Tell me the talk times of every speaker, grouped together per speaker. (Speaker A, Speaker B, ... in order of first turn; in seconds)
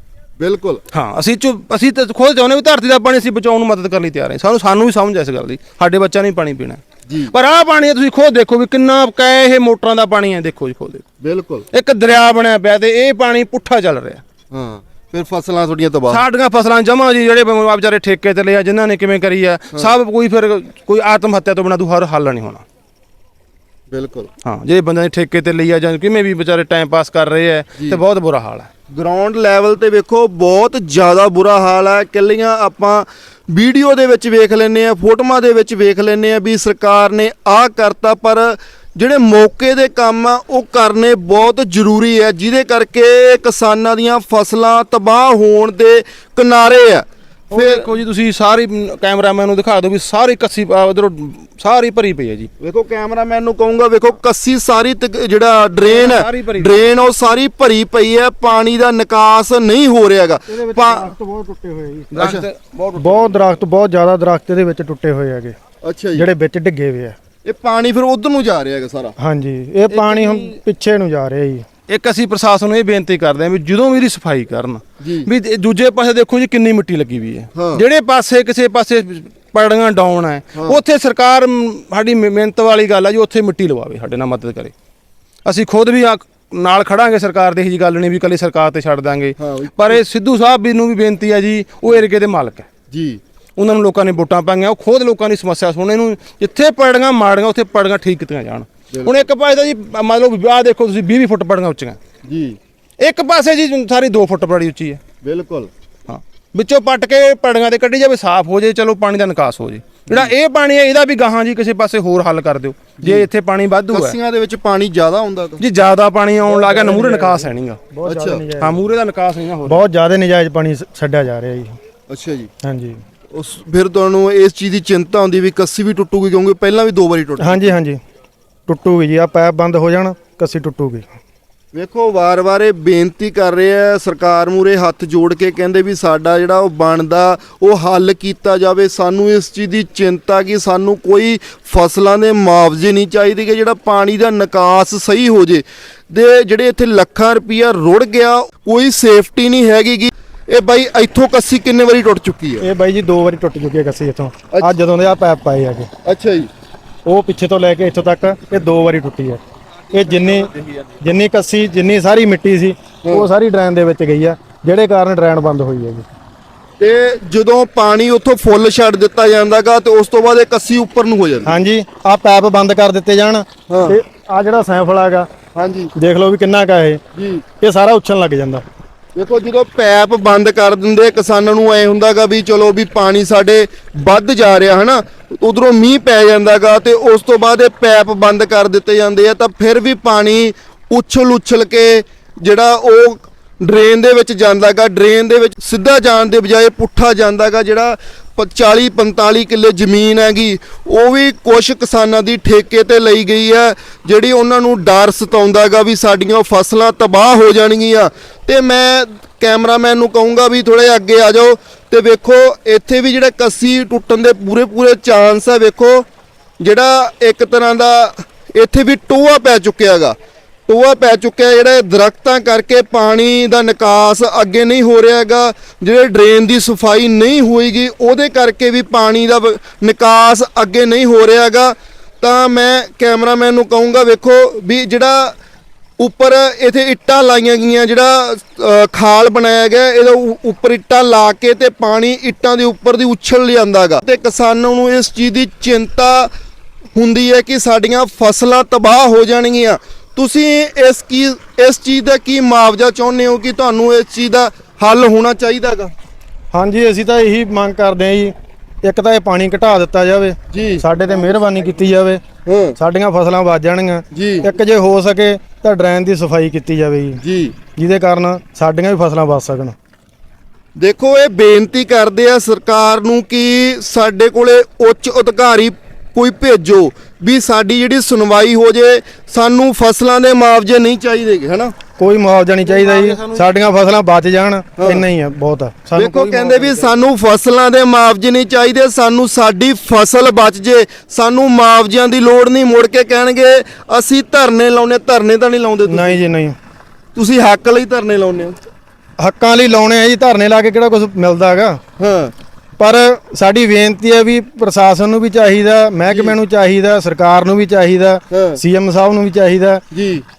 Speaker A: 0.4-0.8, 7.1-7.3, 11.2-11.7, 14.5-16.2, 23.9-24.3, 28.9-47.9, 52.6-61.1, 62.2-62.5, 65.8-66.3, 67.4-69.1, 75.0-75.3, 77.5-77.8, 89.4-90.0, 92.9-93.2, 98.9-99.2, 102.2-102.6, 105.2-105.7, 113.0-113.3, 113.9-115.6, 118.0-118.4, 122.1-122.5, 123.3-127.7, 131.7-152.7, 156.0-156.5, 166.8-171.5, 173.7-173.9, 175.5-175.9, 177.1-177.4, 179.1-216.1, 216.6-220.2, 220.7-235.4, 236.0-246.3, 246.9-255.9, 260.5-260.8, 262.4-262.7, 264.1-264.4, 267.2-267.5, 270.8-281.7, 284.8-285.0, 285.9-296.2, 297.1-298.6, 302.0-302.3, 306.1-306.4, 308.3-308.6, 309.9-310.2
Speaker B: 0.9-11.0, 11.7-14.2, 16.1-22.6, 24.4-28.7, 47.5-52.5, 55.8-56.8, 62.1-63.3, 69.9-70.5, 71.9-84.7, 85.4-92.7, 93.6-102.0, 103.0-105.0, 106.1-114.2, 115.6-117.8, 118.6-119.9, 282.6-283.5
Speaker C: 60.5-62.3, 62.9-65.5, 66.1-67.2, 69.2-71.6, 116.5-118.9, 119.7-121.8, 122.6-123.0, 127.4-128.0, 128.7-131.1, 152.6-155.9, 157.1-159.4, 159.9-160.5, 161.0-166.0, 171.4-175.3, 175.9-177.0, 177.6-178.6, 256.5-262.2, 262.8-267.2, 267.8-269.7, 282.0-286.7, 295.9-296.6, 299.2-301.8, 302.8-309.8